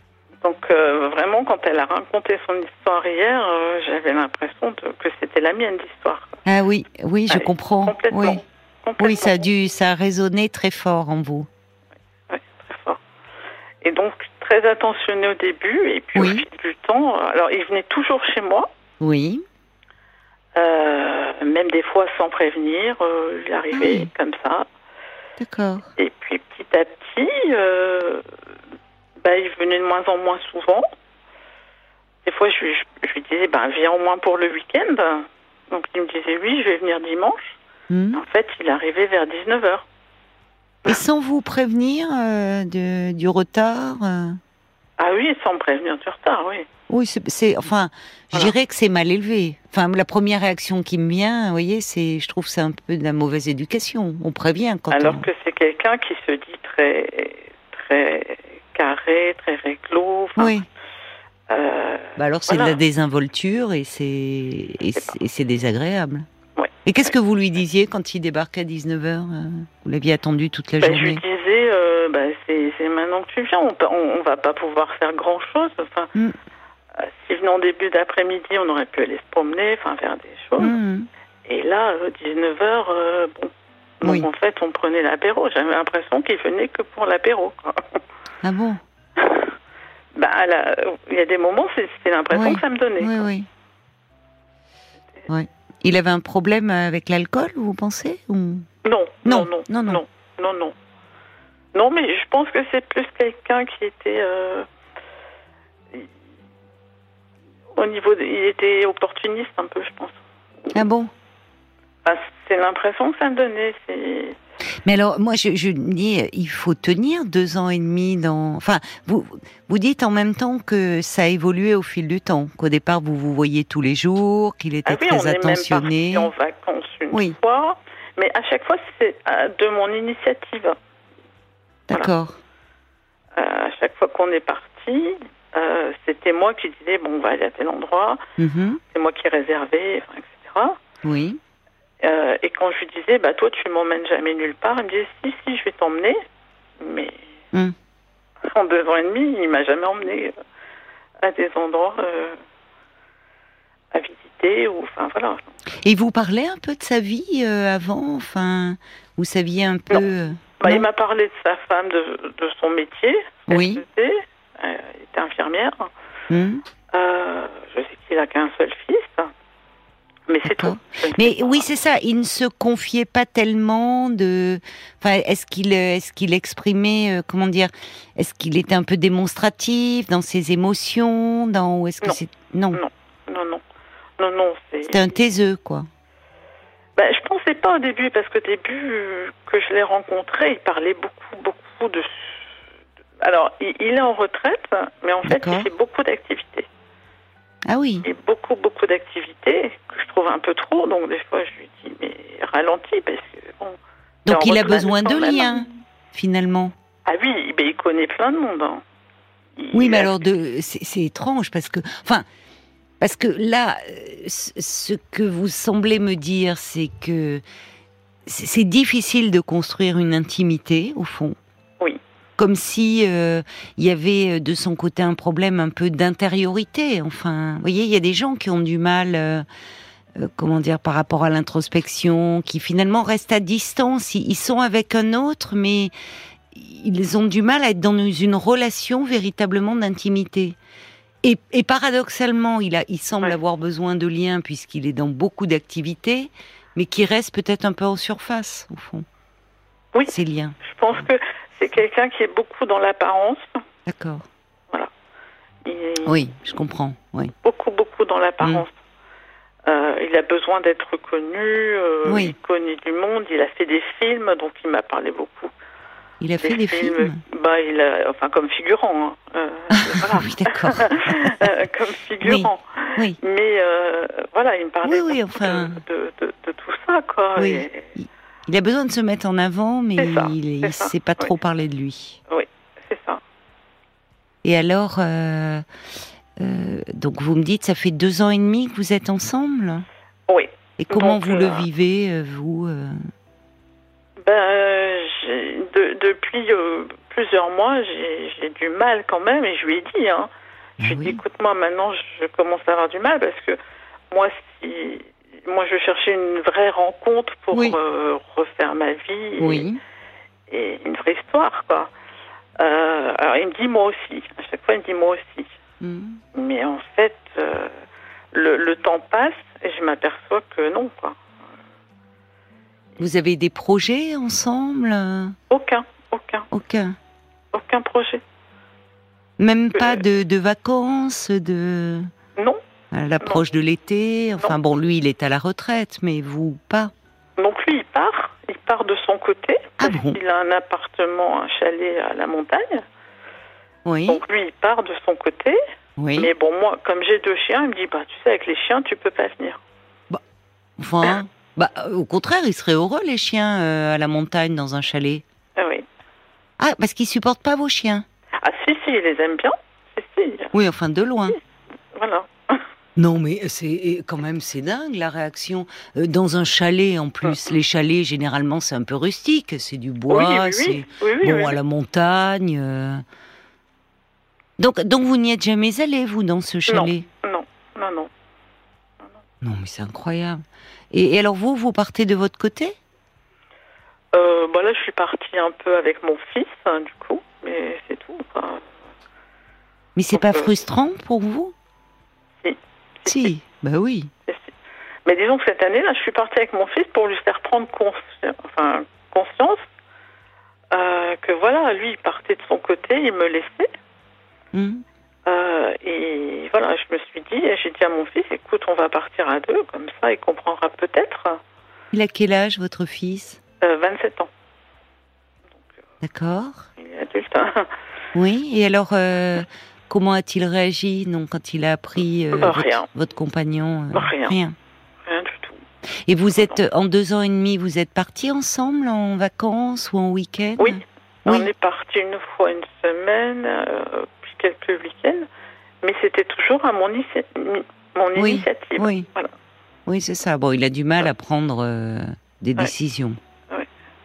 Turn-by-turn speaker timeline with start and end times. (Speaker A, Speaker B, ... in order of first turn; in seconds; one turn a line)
Speaker A: 0.4-6.4
Speaker B: 6.5-8.4
Speaker A: 7.3-9.4
Speaker B: 9.0-11.5
Speaker A: 12.3-13.0
Speaker A: 13.8-18.7
Speaker B: 16.1-16.4
Speaker B: 19.0-19.4
Speaker A: 20.5-24.7
Speaker B: 23.7-24.1
Speaker B: 25.4-25.9
Speaker A: 26.0-28.3
Speaker A: 29.2-30.9
Speaker A: 32.2-37.5
Speaker B: 37.9-38.2
Speaker A: 38.1-39.9
Speaker B: 40.8-44.4
Speaker A: 45.0-46.7
Speaker B: 46.9-55.3
Speaker A: 54.9-60.5
Speaker B: 60.4-60.7
Speaker A: 61.5-62.8
Speaker B: 62.1-66.3
Speaker A: 66.5-67.1
Speaker B: 66.8-71.2
Speaker A: 70.8-76.1
Speaker A: 76.9-80.7
Speaker B: 80.6-81.1
Speaker A: 81.5-88.0
Speaker B: 84.0-84.3
Speaker B: 88.4-88.8
Speaker A: 89.2-89.5
Speaker A: 90.1-93.2
Speaker B: 92.3-93.5
Speaker B: 95.3-98.7
Speaker A: 98.8-100.7
Speaker B: 99.2-100.0
Speaker A: 101.7-104.7
Speaker A: 107.7-110.2
Speaker B: 110.7-111.1
Speaker A: 112.0-114.4
Speaker B: 114.8-126.3
Speaker A: 124.8-130.8
Speaker B: 131.9-132.4
Speaker A: 133.3-138.2
Speaker B: 138.4-138.8
Speaker A: 138.9-140.8
Speaker B: 141.0-141.4
Speaker A: 142.0-146.2
Speaker A: 146.8-147.2
Speaker A: 148.4-150.3
Speaker A: 151.2-152.4
Speaker A: 153.9-155.4
Speaker B: 155.8-160.9
Speaker A: 160.6-165.9
Speaker B: 163.5-163.8
Speaker B: 166.3-166.6
Speaker A: 166.9-169.3
Speaker A: 170.3-171.7
Speaker B: 170.4-182.8
Speaker A: 182.7-183.6
Speaker A: 184.2-185.0
Speaker B: 184.9-185.9
Speaker A: 186.9-192.3
Speaker A: 193.2-196.7
Speaker B: 195.2-195.7
Speaker B: 197.7-198.1
Speaker A: 198.0-205.7
Speaker B: 204.2-206.7
Speaker A: 207.1-208.8
Speaker A: 209.6-210.2
Speaker B: 209.7-212.2
Speaker B: 213.0-217.4
Speaker B: 218.2-221.3
Speaker B: 222.4-229.4
Speaker B: 230.1-235.9
Speaker B: 236.5-240.6
Speaker B: 241.2-249.0
Speaker B: 250.1-250.6
Speaker A: 250.6-253.6
Speaker B: 253.8-254.3
Speaker A: 255.6-256.2
Speaker B: 256.0-257.3
Speaker A: 257.4-258.7
Speaker A: 259.6-265.5
Speaker B: 262.0-262.3
Speaker B: 266.2-267.2
Speaker A: 266.4-277.9
Speaker B: 269.7-271.5
Speaker B: 272.2-273.2
Speaker B: 274.8-275.8
Speaker B: 277.4-282.2
Speaker A: 280.0-281.3
Speaker A: 282.3-283.2
Speaker B: 284.4-285.6
Speaker B: 286.4-289.9
Speaker A: 290.3-291.6
Speaker B: 290.8-293.1
Speaker A: 294.2-303.6
Speaker B: 300.8-301.2
Speaker A: 304.1-309.6
Speaker B: 307.5-307.8
Speaker B: 309.4-309.8
Speaker A: 310.5-311.9
Speaker A: 312.6-315.5
Speaker B: 315.8-316.2
Speaker A: 316.3-317.8
Speaker A: 318.3-321.2
Speaker B: 323.0-325.4
Speaker A: 325.5-326.5
Speaker B: 326.5-326.9
Speaker A: 327.5-328.2
Speaker B: 329.4-332.1
Speaker A: 329.7-330.0
Speaker A: 332.4-332.6
Speaker B: 332.9-336.9
Speaker A: 337.4-342.8
Speaker B: 339.8-340.2
Speaker B: 343.8-344.2
Speaker A: 344.1-345.6
Speaker B: 346.0-346.3
Speaker A: 346.2-349.6
Speaker B: 350.8-355.2
Speaker A: 355.6-355.9
Speaker B: 356.6-358.1
Speaker A: 358.4-360.5
Speaker B: 360.5-361.4
Speaker A: 361.9-362.6
Speaker B: 362.9-373.0
Speaker A: 370.1-371.6
Speaker B: 374.6-377.1
Speaker A: 376.7-378.1
Speaker B: 379.4-382.8
Speaker A: 384.1-388.7
Speaker B: 389.9-391.5
Speaker A: 390.1-390.5
Speaker A: 392.4-393.3
Speaker B: 393.1-394.1
Speaker A: 394.2-394.5
Speaker A: 395.0-399.6
Speaker A: 400.7-403.7
Speaker B: 404.5-404.8
Speaker A: 405.2-411.4
Speaker B: 411.9-413.4
Speaker A: 413.6-414.3
Speaker B: 416.0-416.7
Speaker A: 416.8-417.7
Speaker B: 418.1-424.6
Speaker A: 422.3-422.9
Speaker A: 423.9-424.4
Speaker A: 425.0-425.6
Speaker B: 426.1-431.5
Speaker A: 430.6-435.3
Speaker A: 435.8-439.3
Speaker B: 438.1-439.1
Speaker B: 439.9-443.2